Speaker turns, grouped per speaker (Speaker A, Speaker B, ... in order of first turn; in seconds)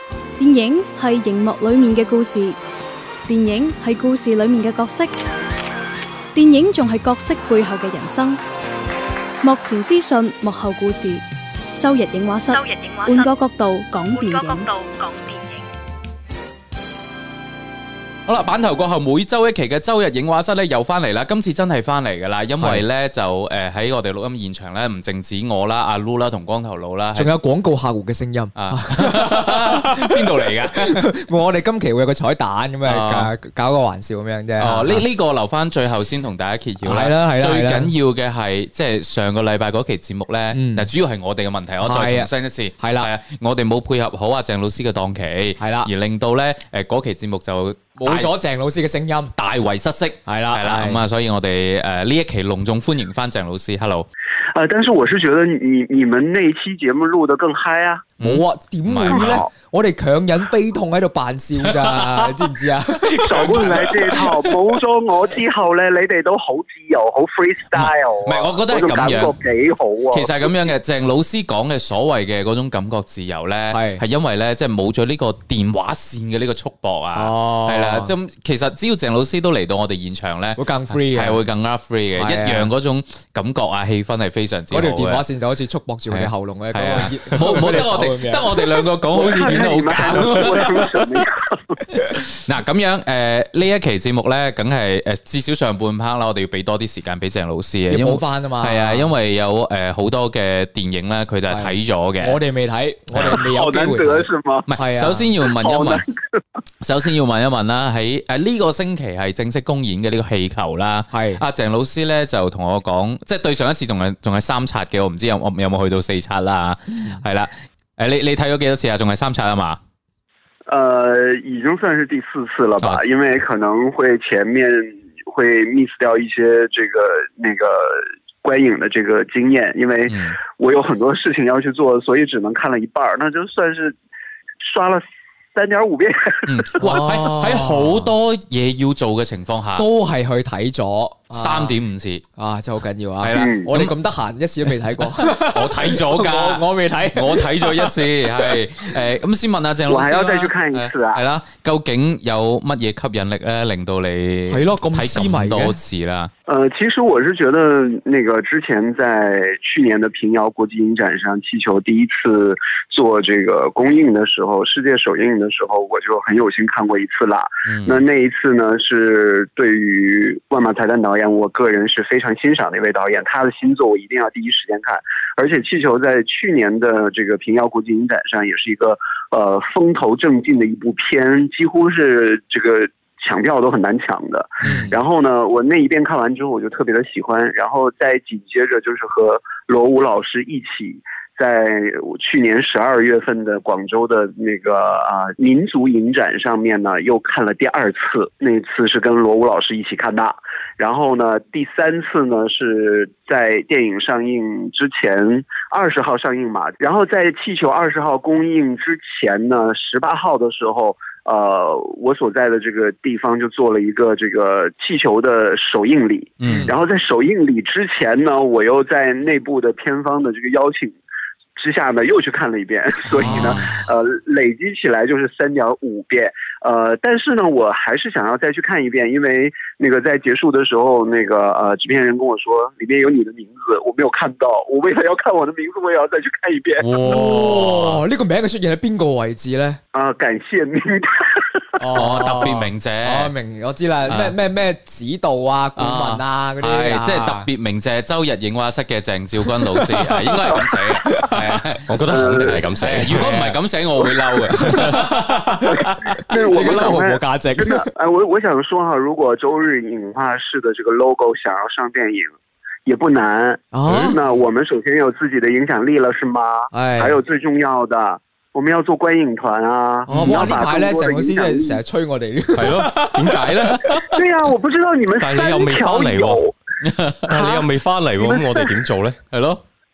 Speaker A: 0.4-2.6, 3.3-5.1, 6.3-8.4, 9.4-11.2, 11.8-14.7
Speaker B: 12.5-13.3, 14.1-15.7
Speaker C: 18.3-27.3, 28.6-31.0, 32.9-33.3, 34.6-48.3, 49.4-54.1, 58.2-59.4, 61.6-62.4, 63.0-64.5, 67.7-69.3, 70.1-85.2, 86.1-91.0, 92.4-102.4, 103.1-103.5, 104.7-106.0, 106.8-119.8, 130.1-130.4, 136.5-139.8, 141.3-142.2, 143.2-143.9, 145.0-156.3, 167.7-168.0, 216.4-216.7, 223.2-223.7, 236.9-238.0, 241.9-243.3, 244.1-244.3, 245.8-251.9, 252.8-255.2, 270.1-270.6, 273.3-274.0, 276.8-277.2, 279.3-279.6
Speaker D: 27.2-30.2, 30.8-35.0, 36.8-37.9, 40.5-40.9, 41.8-42.3, 42.8-43.1, 45.6-45.9, 48.0-49.3, 50.3-51.0, 58.2-63.0, 73.7-74.0, 77.2-78.1, 80.6-81.4, 82.2-82.7, 84.7-88.8, 97.9-99.1, 101.5-105.3, 111.1-111.4, 116.9-117.2, 136.8-138.1, 139.8-141.8, 142.4-147.9, 154.5-155.8, 184.6-185.0, 216.4-216.7, 223.2-223.8, 236.8-239.8, 241.8-247.5, 250.6-251.3, 253.1-253.6, 254.5-257.9, 263.7-264.2, 266.7-267.2, 270.1-273.2
Speaker E: 54.5-58.1, 59.1-59.5, 63.2-70.5, 89.2-91.8, 103.4-104.7, 105.4-106.4, 120.7-134.0, 134.6-135.0, 135.6-136.7, 143.3-143.7, 149.9-151.2, 156.5-221.0, 221.6-236.8, 239.9-241.4, 252.1-252.6, 256.3-271.8, 274.1-276.5
Speaker F: 251.9-253.4, 272.6-273.9, 275.2-276.4, 277.3-279.2